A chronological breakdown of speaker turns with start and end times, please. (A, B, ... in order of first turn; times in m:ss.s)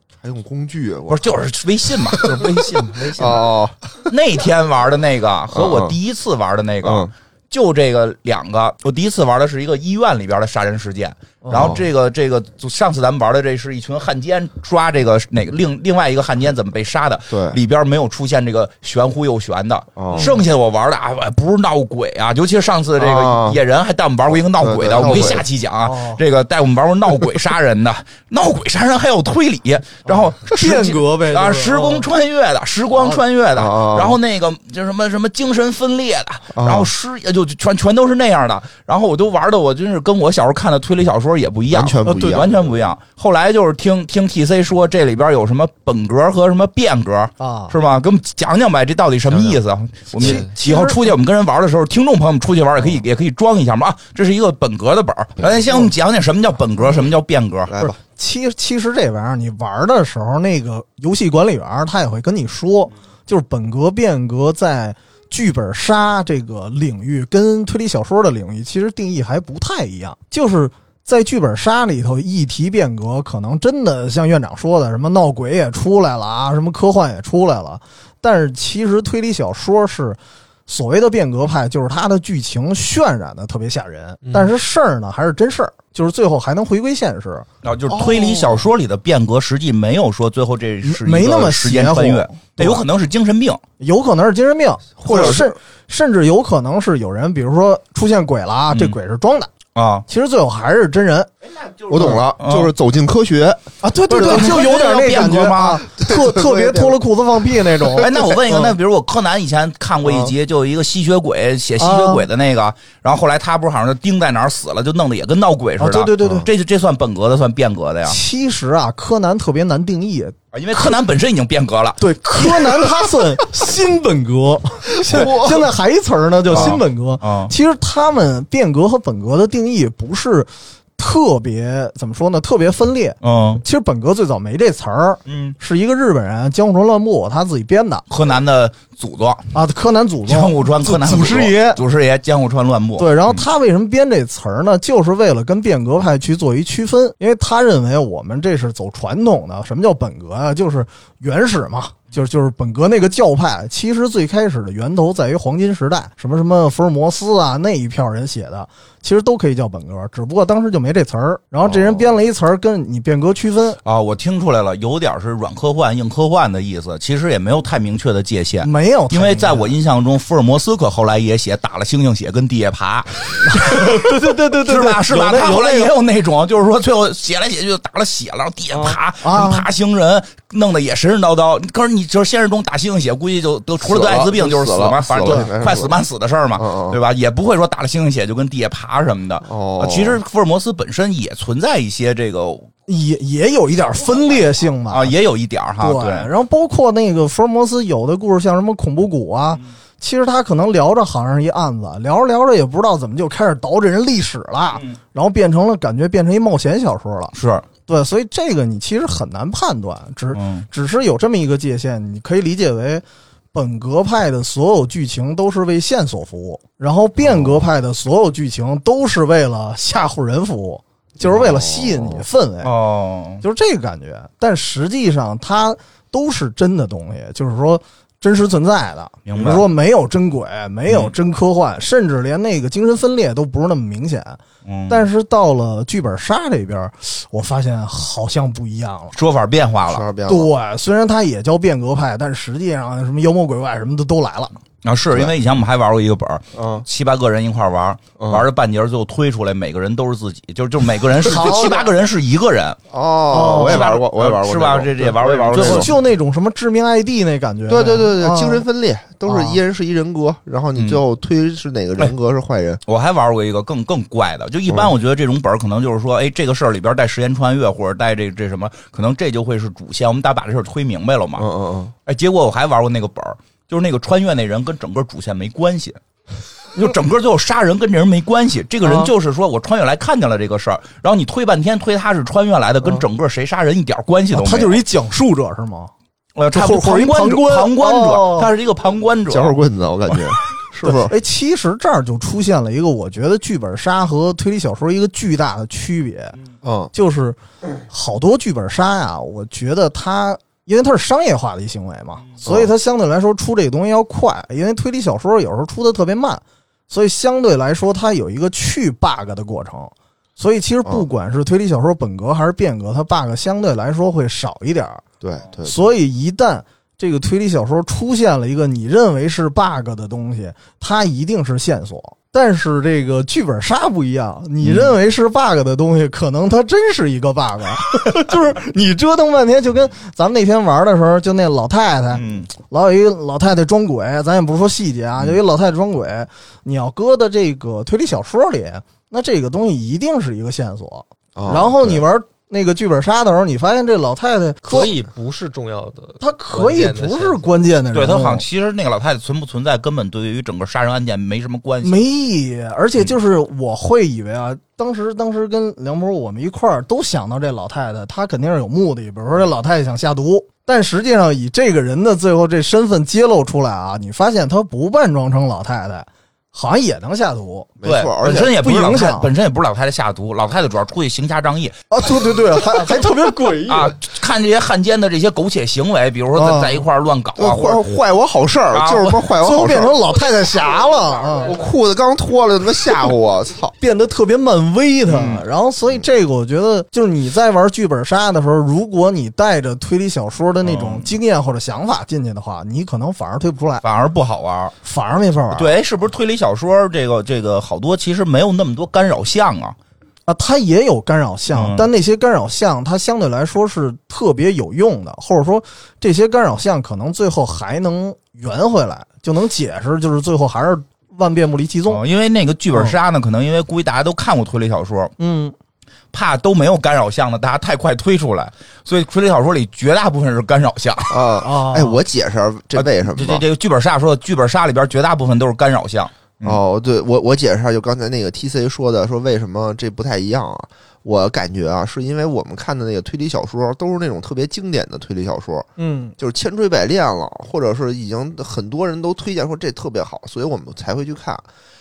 0:00.2-0:01.3 A
0:01.1-0:03.4 B
0:02.6-0:03.1 C
0:03.1-0:03.8 A
0:04.1-0:57.7 B
0:05.5-0:06.0 A
0:06.8-0:07.1 A
0:11.4-0:11.7 C
0:11.5-0:11.9 A
0:17.3-0:17.6 A
0:20.0-0:20.3 A
0:20.2-0:20.4 C
0:23.0-0:23.6 A
0:24.6-0:25.4 A
0:25.8-0:26.2 C
0:30.1-0:32.1 C
0:33.6-0:34.2 A
0:36.6-0:36.9 A
0:41.7-0:42.6 A
0:42.1-0:42.4 C
0:47.4-0:47.7 C
0:50.2-0:51.1 C
0:50.2-0:50.5 D
0:57.7-0:58.0 A
0:57.8-1:27.5 C
1:24.2-1:24.6 D
1:27.6-1:33.6 B
1:27.9-1:28.6 A
1:30.8-1:32.8 C
1:33.8-1:39.5 C
1:35.0-1:35.6 A
1:38.7-1:39.0 B
1:39.8-1:40.0 B
1:40.1-1:41.3 C
1:41.6-1:42.7 B
1:41.9-1:43.6 A
1:43.8-1:48.8 C
1:44.1-1:45.8 B
1:46.0-1:47.0 A
1:47.8-1:48.3 A
1:48.0-1:58.2 B
1:50.0-1:50.3 A
1:51.8-1:52.3 C
1:55.8-1:56.5 C
1:56.2-1:56.5 A
1:58.1-2:00.8 C
2:00.5-2:02.9 B
2:02.0-2:18.0 C
2:05.0-2:05.7 A
2:06.5-2:07.5 B
2:06.5-2:06.8 A
2:13.2-2:13.6 B
2:15.3-2:15.6 B
2:18.1-2:19.5 B
2:19.5-2:21.8 C
2:20.3-2:23.5 B
2:23.0-2:43.8 C
2:43.8-3:12.7 B
2:48.6-2:49.7 C
2:53.4-2:55.9 C
2:58.7-2:59.7 C
3:03.8-3:06.0 A
3:05.2-3:05.5 C
3:06.6-3:07.0 A
3:09.5-3:10.2 A
3:12.9-3:15.1 C
3:14.9-3:16.3 B
3:15.8-3:27.3 C
3:27.3-3:27.7 B
3:27.9-3:42.7 C
3:30.3-3:30.7 B
3:37.2-3:37.6 A
3:41.2-3:42.2 A
3:42.6-3:43.4 B
3:43.4-3:59.2 C
3:49.3-3:49.7 B
3:50.9-3:51.2 B
3:54.6-3:55.1 B
3:59.1-4:00.0 B
3:59.9-4:00.5 A
4:00.3-4:04.6 C
4:04.8-4:12.8 B
4:06.5-4:06.8 A
4:08.2-4:08.4 A
4:11.2-4:11.8 C
4:11.3-4:11.8 A
4:12.9-4:15.9 A
4:13.3-4:13.9 C
4:13.4-4:15.9 B
4:15.5-4:18.6 C
4:17.7-4:22.8 A
4:19.3-4:19.6 C
4:20.8-4:21.0 B
4:22.8-4:31.4 B
4:31.4-4:31.9 A
4:32.1-4:36.0 B
4:36.7-4:44.8 B
4:38.8-4:39.1 C
4:44.3-4:45.9 C
4:46.4-4:50.4 B
4:46.5-4:48.5 C
4:49.3-4:51.1 A
4:50.8-4:56.4 C
4:56.6-4:56.9 A
4:56.9-4:57.4 C
4:57.9-5:15.0 C
5:02.4-5:02.7 A
5:15.2-5:15.9 A
5:15.6-5:45.0 C
5:24.6-5:25.0 B
5:32.1-5:32.5 B
5:41.4-5:42.0 A
5:44.6-5:47.5 D
5:46.2-5:48.4 C
5:47.9-5:52.0 B
5:51.8-6:07.7 C
6:07.8-6:08.5 A
6:07.8-6:11.8 B
6:08.5-6:09.3 C
6:11.9-6:14.0 C
6:13.7-6:17.8 B
6:16.4-6:16.8 C
6:17.4-6:20.0 A
6:18.7-6:19.2 B
6:19.4-6:21.5 C
6:21.5-6:23.7 A
6:23.8-6:33.8 C
6:25.1-6:25.4 A
6:30.6-6:31.1 B
6:33.8-6:34.8 B
6:34.8-6:35.7 C
6:35.5-6:39.8 B
6:40.3-6:52.0 C
6:41.5-6:41.9 B
6:51.9-6:55.1 B
6:52.7-6:53.0 C
6:55.2-6:55.6 C
6:56.1-7:01.3 B
7:01.1-7:03.4 A
7:01.4-7:02.0 C
7:02.8-7:06.6 B
7:06.4-7:21.4 A
7:15.8-7:16.2 C